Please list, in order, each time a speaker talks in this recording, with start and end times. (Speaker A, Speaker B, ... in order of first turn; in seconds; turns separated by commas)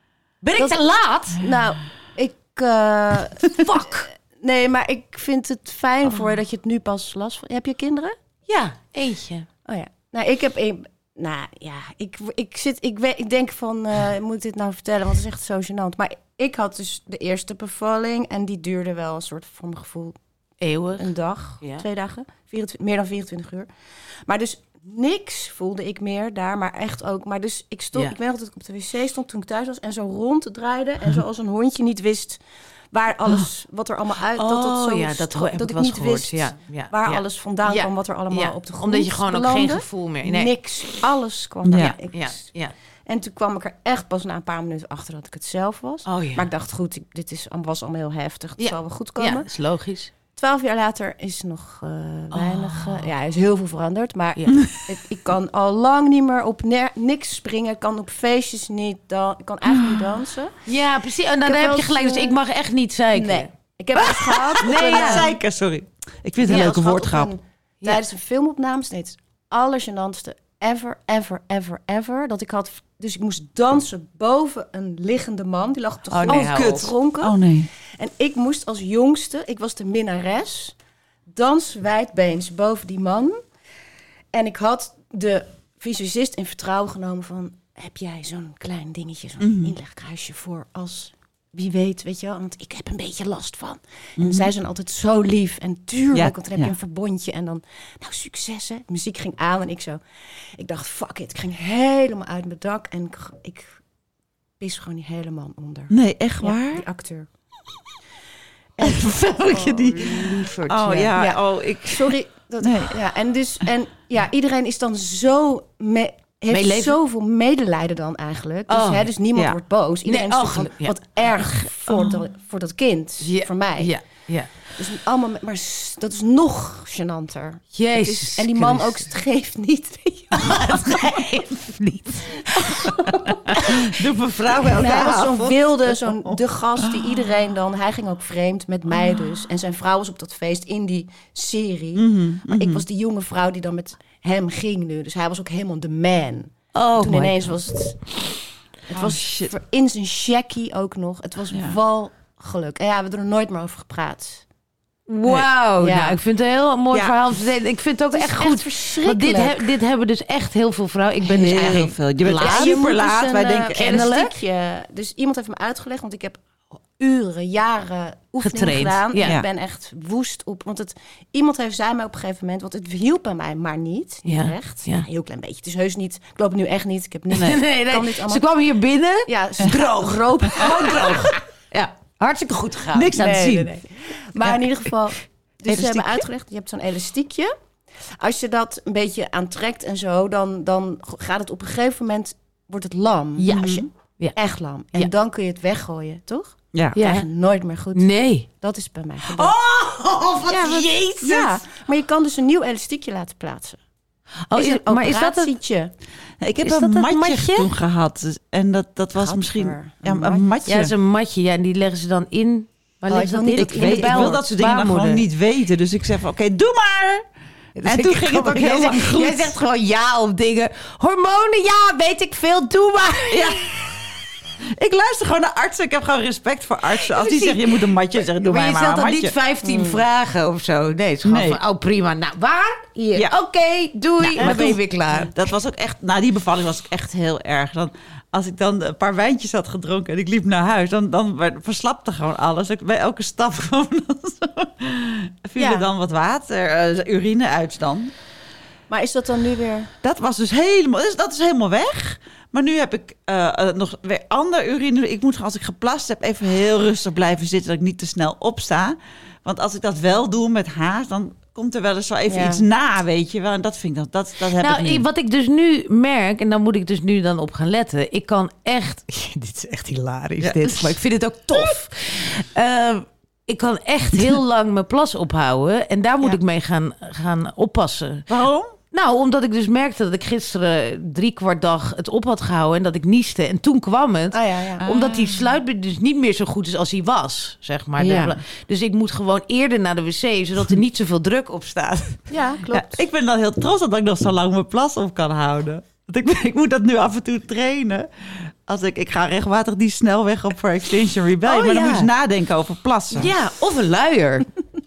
Speaker A: 0.4-1.4, Speaker B: 1.3-8.2, Speaker A: 3.6-4.1, Speaker A: 8.5-9.5, Speaker B: 9.7-20.1, Speaker A: 20.6-21.8, Speaker B: 21.0-23.7, Speaker B: 24.3-32.4, Speaker B: 32.9-42.5, Speaker A: 34.4-41.0, Speaker C: 41.6-41.9, Speaker A: 41.7-42.7, Speaker B: 43.1-49.5, Speaker A: 46.0-46.5, Speaker A: 48.6-50.1, Speaker B: 50.4-60.5, Speaker A: 52.3-53.1, Speaker C: 59.6-60.2, Speaker A: 60.6-65.3, Speaker B: 61.4-62.4, Speaker B: 63.1-65.3, Speaker C: 64.6-67.3, Speaker B: 66.4-77.3, Speaker A: 66.5-66.7, Speaker A: 76.1-76.9, Speaker C: 76.3-77.7, Speaker B: 78.0-80.7, Speaker B: 81.3-83.4, Speaker B: 84.3-100.0, Speaker C: 89.4-89.7, Speaker C: 94.2-94.5, Speaker C: 96.1-96.7, Speaker B: 100.6-103.7, Speaker B: 104.6-107.3, Speaker C: 105.9-106.8, Speaker B: 108.8-110.2, Speaker C: 108.8-113.0, Speaker A: 109.9-111.2, Speaker B: 111.1-123.9, Speaker A: 116.5-117.0, Speaker A: 118.7-119.1, Speaker A: 120.0-121.0, Speaker C: 121.9-122.2, Speaker A: 123.2-124.7, Speaker B: 124.8-131.2, Speaker A: 127.7-129.1, Speaker A: 130.3-133.7, Speaker C: 133.5-137.1, Speaker B: 134.7-148.0, Speaker C: 141.9-142.8, Speaker A: 146.7-147.5, Speaker B: 148.9-154.4, Speaker C: 148.9-149.5, Speaker C: 151.5-151.7, Speaker A: 155.1-162.8, Speaker B: 155.8-156.2, Speaker B: 158.1-159.7, Speaker C: 161.3-164.1, Speaker B: 162.2-166.4, Speaker A: 163.7-164.3, Speaker B: 166.9-178.4, Speaker A: 168.4-169.4, Speaker A: 174.2-175.1, Speaker A: 177.3-183.7, Speaker B: 179.3-181.3, Speaker C: 179.6-179.9, Speaker C: 182.9-183.6, Speaker B: 183.2-187.5, Speaker C: 185.7-186.3, Speaker B: 188.2-193.8, Speaker A: 193.4-194.3, Speaker C: 193.5-193.8, Speaker B: 194.3-199.5, Speaker A: 196.9-197.2, Speaker A: 197.9-198.5, Speaker A: 199.3-201.6, Speaker B: 200.5-203.8, Speaker A: 204.5-205.5, Speaker B: 204.5-205.9, Speaker C: 206.4-210.9, Speaker A: 206.6-207.7, Speaker B: 209.2-210.5, Speaker A: 210.7-215.2, Speaker B: 213.1-214.4, Speaker C: 213.6-217.2, Speaker A: 217.8-223.5, Speaker C: 217.8-219.5, Speaker C: 223.3-223.7, Speaker C: 224.8-229.3, Speaker A: 227.0-227.8, Speaker A: 228.4-235.3, Speaker B: 229.6-230.0, Speaker C: 231.2-231.6, Speaker C: 234.2-248.1, Speaker B: 245.6-245.8, Speaker B: 248.9-249.9, Speaker C: 250.0-265.0, Speaker B: 262.3-262.6, Speaker A: 264.6-278.3, Speaker C: 270.4-271.0, Speaker C: 278.3-278.7, Speaker A: 278.9-292.2, Speaker B: 284.3-284.8, Speaker C: 284.8-285.4, Speaker B: 288.0-288.4, Speaker B: 292.3-293.0, Speaker C: 292.7-303.3, Speaker A: 301.4-302.1, Speaker A: 303.1-304.5